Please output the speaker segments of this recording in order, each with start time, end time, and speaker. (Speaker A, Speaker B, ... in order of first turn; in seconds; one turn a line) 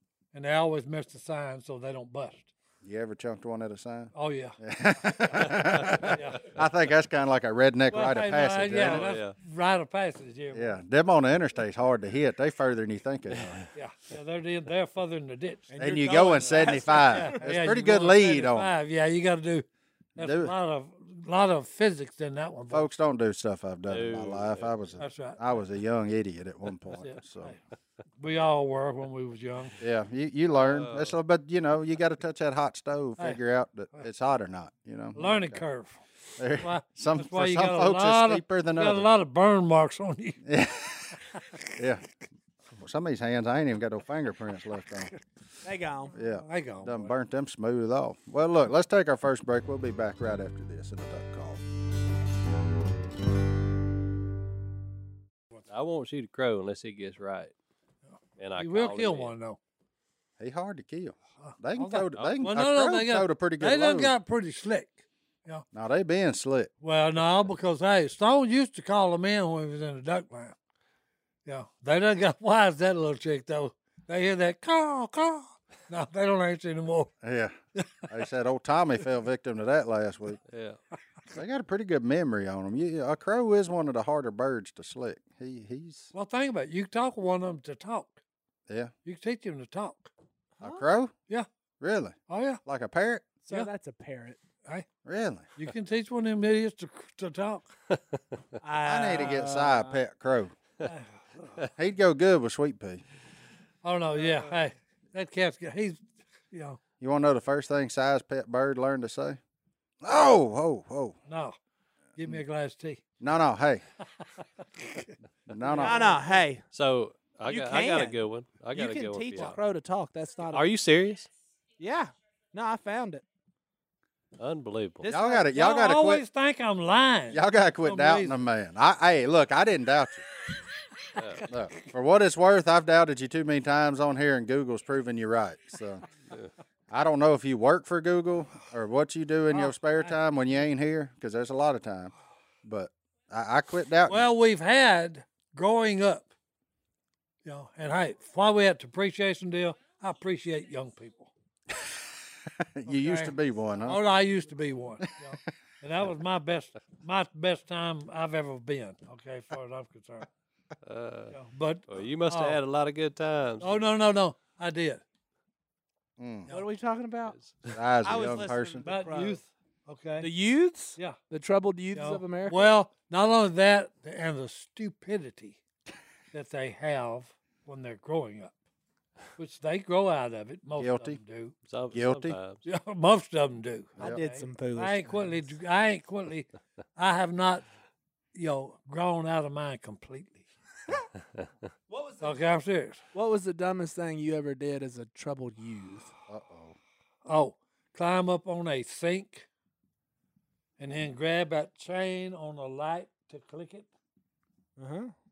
Speaker A: 0.3-2.5
Speaker B: 2.8-9.1
Speaker A: 4.1-6.5
Speaker C: 5.6-6.0
Speaker A: 7.9-10.8
Speaker C: 8.8-9.3
Speaker B: 10.5-13.7
Speaker A: 13.8-15.7
Speaker D: 15.7-17.4
Speaker B: 15.8-18.7
Speaker A: 17.1-19.7
Speaker B: 20.2-20.5
Speaker A: 20.2-22.9
Speaker B: 22.7-27.6
Speaker C: 23.9-24.7
Speaker A: 25.0-25.4
Speaker A: 26.9-27.6
Speaker A: 28.2-29.8
Speaker B: 29.8-35.6
Speaker C: 30.6-31.1
Speaker A: 35.1-36.0
Speaker B: 36.4-39.1
Speaker A: 36.6-40.4
Speaker B: 40.5-41.2
Speaker A: 41.4-41.8
Speaker B: 41.8-42.0
Speaker B: 42.8-45.1
Speaker D: 45.6-46.1
Speaker B: 46.1-51.6
Speaker A: 46.2-47.1
Speaker C: 55.7-57.5
Speaker C: 58.4-59.3
Speaker A: 58.6-59.6
Speaker B: 60.4-64.1
Speaker A: 61.4-65.6
Speaker B: 65.7-66.7
Speaker A: 66.8-70.5
Speaker A: 71.5-77.1
Speaker B: 77.2-77.6
Speaker B: 78.1-80.4
Speaker C: 80.5-80.8
Speaker B: 81.3-86.1
Speaker A: 86.1-88.2
Speaker B: 88.7-88.9
Speaker A: 89.0-90.1
Speaker B: 90.6-91.1
Speaker B: 91.8-93.2
Speaker A: 92.3-92.6
Speaker D: 93.4-94.4
Speaker B: 95.0-95.5
Speaker A: 95.6-97.7
Speaker D: 98.6-100.0
Speaker B: 98.8-100.5
Speaker A: 100.8-101.6
Speaker B: 101.8-103.0
Speaker A: 103.8-106.8
Speaker D: 104.2-104.5
Speaker B: 107.0-109.4
Speaker B: 110.0-111.2
Speaker A: 111.3-111.6
Speaker A: 112.2-113.0
Speaker B: 113.2-113.8
Speaker A: 114.8-116.2
Speaker B: 115.5-116.1
Speaker D: 115.8-116.6
Speaker C: 116.7-119.6
Speaker D: 117.5-118.2
Speaker D: 118.7-120.7
Speaker C: 120.5-121.3
Speaker D: 121.8-123.2
Speaker C: 124.4-125.1
Speaker D: 125.0-125.5
Speaker B: 125.1-126.2
Speaker A: 125.5-128.4
Speaker B: 127.3-130.3
Speaker C: 131.2-131.4
Speaker B: 131.4-136.0
Speaker B: 136.9-142.1
Speaker A: 139.5-140.1
Speaker B: 142.6-144.3
Speaker A: 144.1-146.3
Speaker A: 147.4-151.3
Speaker B: 152.5-154.0
Speaker A: 152.9-160.3
Speaker C: 160.8-161.3
Speaker A: 161.3-162.6
Speaker C: 161.9-163.9
Speaker A: 163.6-165.0
Speaker B: 166.2-166.5
Speaker D: 166.5-167.4
Speaker C: 167.3-167.7
Speaker B: 167.7-168.8
Speaker D: 168.0-169.4
Speaker A: 168.8-170.3
Speaker D: 170.2-172.7
Speaker A: 171.9-175.6
Speaker A: 176.3-178.5
Speaker A: 179.4-181.5
Speaker B: 180.8-181.2
Speaker C: 181.7-182.6
Speaker B: 181.9-182.4
Speaker A: 182.7-187.7
Speaker D: 184.0-185.0
Speaker A: 188.3-190.5
Speaker A: 192.2-193.0
Speaker D: 193.1-196.1
Speaker B: 196.3-196.8
Speaker A: 197.3-199.5
Speaker A: 200.8-203.9
Speaker D: 204.8-205.1